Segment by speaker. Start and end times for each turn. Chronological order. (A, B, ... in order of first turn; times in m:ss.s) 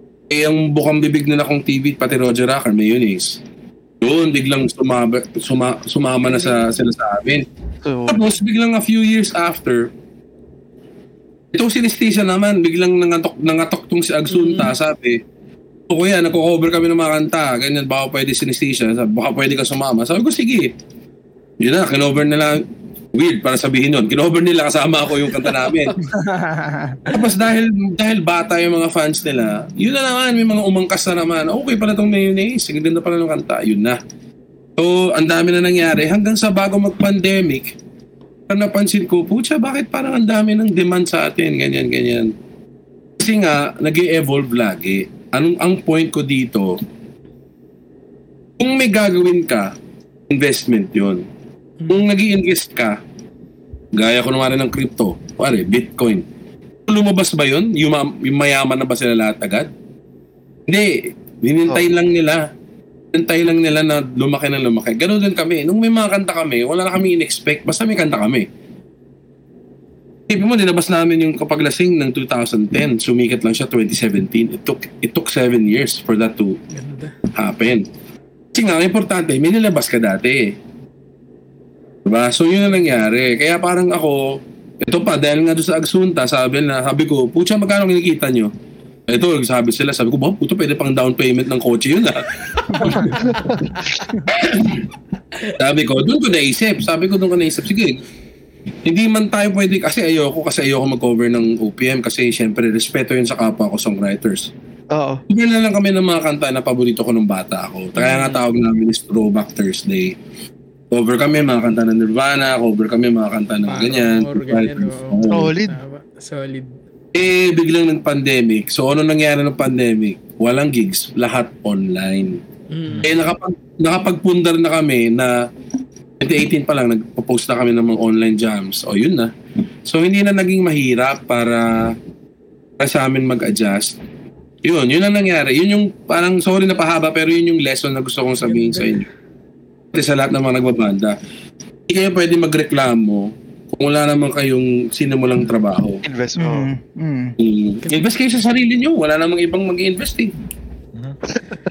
0:00.3-0:03.4 A
0:04.0-0:07.5 A
0:06.3-0:06.7 B
0:07.8-0:08.2 C
0:08.1-0:09.9 A
0:11.5-0:15.2 A
0:14.3-0:14.7 B
0:15.9-0:20.7 A
0:21.6-0:22.6 A
0:23.1-0:26.0 A
0:25.5-0:25.8 B
0:26.0-0:27.1 D
0:27.1-0:34.0 A
0:34.8-0:37.8 A
0:38.5-0:42.3 A
0:43.2-0:46.8 A
0:48.6-0:49.7 A
0:50.3-0:51.2 A
0:51.8-0:52.1 B
0:51.9-0:53.0 A
0:53.9-0:56.2 A
0:56.9-0:59.7 A
1:00.7-1:02.4 A
1:03.1-1:08.5 A
1:10.3-1:16.6 A
1:16.7-1:17.2 B
1:17.3-1:17.9 A
1:18.5-1:20.6 A
1:22.0-1:28.5 A
1:29.1-1:33.3 A
1:32.8-1:33.8 B
1:32.8-1:33.1 D
1:34.3-1:34.9 A
1:35.6-1:38.0 A
1:38.9-1:44.5 A
1:44.9-1:45.2 C
1:45.3-1:50.2 A
1:48.0-1:48.4 B
1:50.9-1:55.5 A
1:53.7-1:56.8 B
1:55.3-1:55.8 C
1:57.1-2:02.4 A
2:02.7-2:03.1 B
2:03.0-2:05.3 A
2:06.2-2:09.3 A
2:09.9-2:12.0 A
2:12.8-2:14.0 A
2:14.6-2:19.1 A
2:18.4-2:19.1 B
2:19.9-2:21.2 A
2:21.9-2:26.0 A
2:26.0-2:26.7 C
2:26.4-2:27.4 D
2:27.4-2:30.3 A